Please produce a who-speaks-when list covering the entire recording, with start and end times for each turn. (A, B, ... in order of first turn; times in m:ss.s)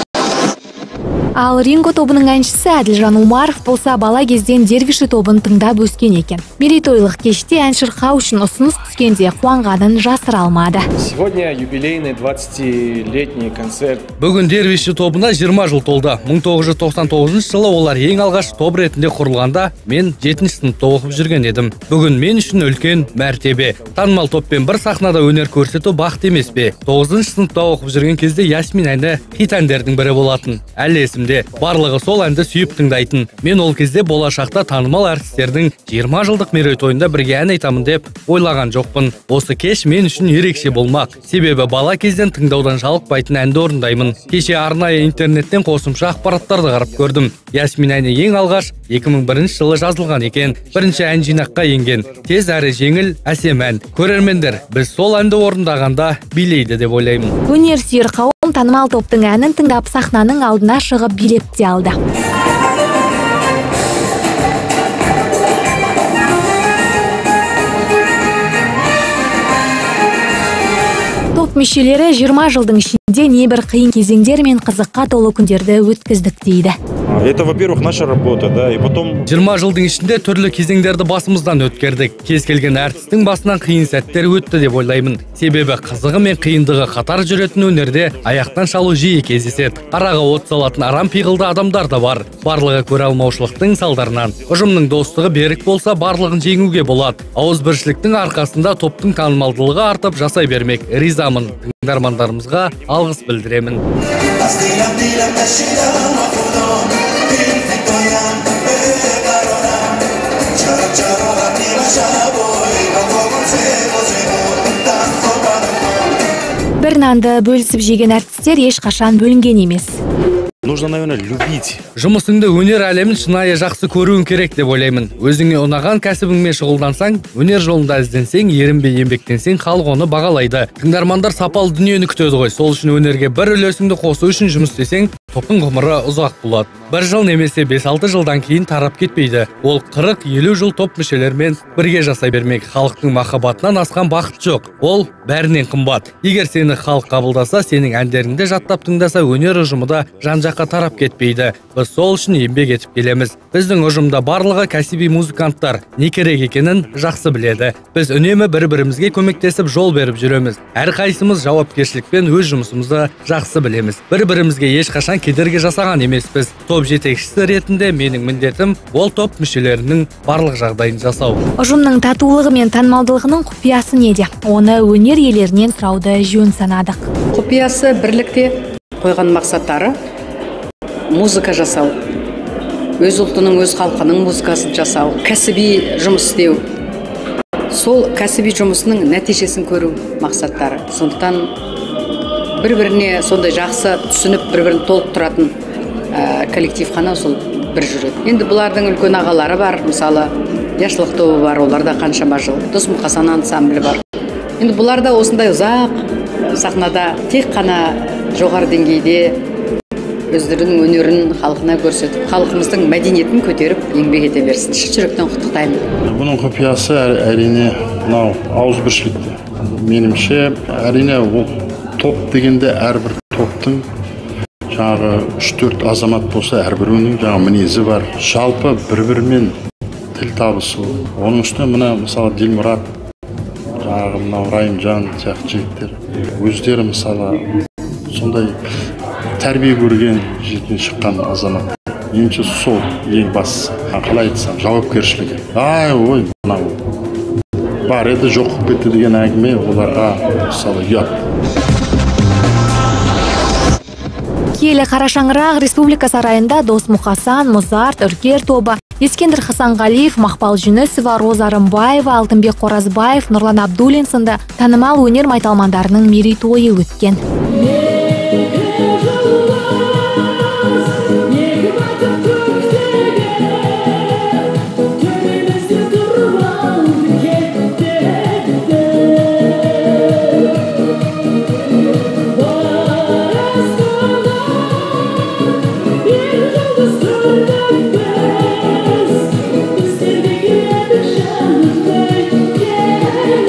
0:01.4-0:10.8 A
0:11.0-0:14.0 B
0:14.2-0:57.4 C
0:57.5-1:02.0 A
1:11.4-1:16.8 A
1:17.1-1:19.1 D
1:19.3-1:43.8 C
1:56.8-2:00.0 A
2:00.7-2:01.8 D
2:02.0-2:51.4 C
2:51.6-2:57.1 A
2:57.3-3:00.0 E
3:01.1-3:02.0 E
3:03.0-3:06.6 E
3:07.7-3:11.6 E
3:12.6-3:15.6 E
3:16.1-3:24.0 E
3:24.6-3:29.4 E
3:30.3-3:35.8 E
3:36.0-3:43.9 F
3:44.7-3:49.6 F
3:50.2-3:52.9 F
3:53.8-3:57.5 F
3:58.1-3:58.6 F
3:59.4-4:06.8 F
4:07.9-4:11.2 F
4:14.6-4:27.2 A
4:32.5-4:33.1 B
4:35.5-4:37.6 B
4:46.4-4:48.1 B
4:49.9-4:52.5 B